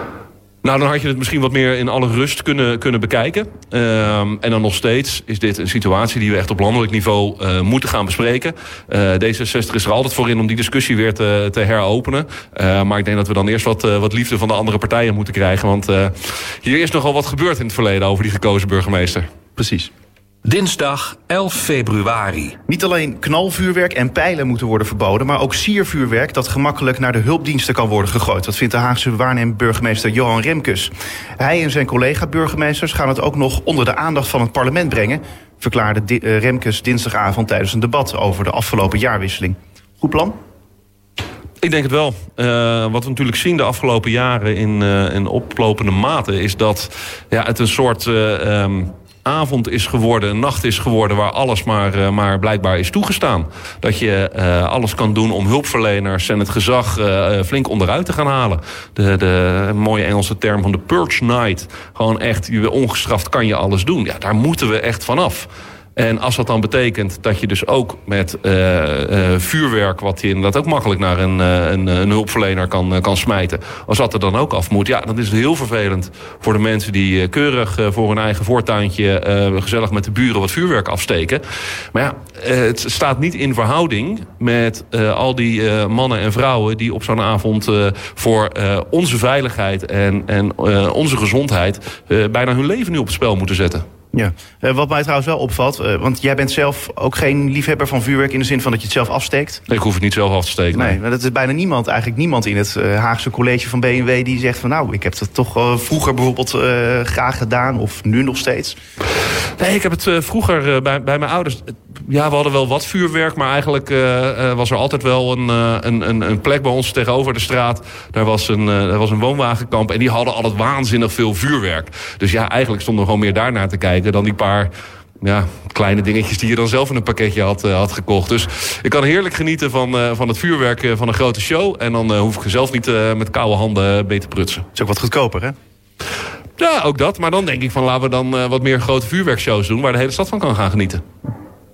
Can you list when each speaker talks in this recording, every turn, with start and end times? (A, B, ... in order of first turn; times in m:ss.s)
0:00.6-0:19.3 A
0:19.6-0:19.9 B
0:20.4-0:22.6 C
0:22.7-0:40.4 B
0:41.6-1:21.4 A
1:21.9-1:33.9 A
1:34.1-1:39.6 B
1:39.7-1:41.0 A
1:40.7-1:48.8 B
1:49.6-2:14.6 A
2:14.8-2:15.6 B
2:16.6-2:21.0 A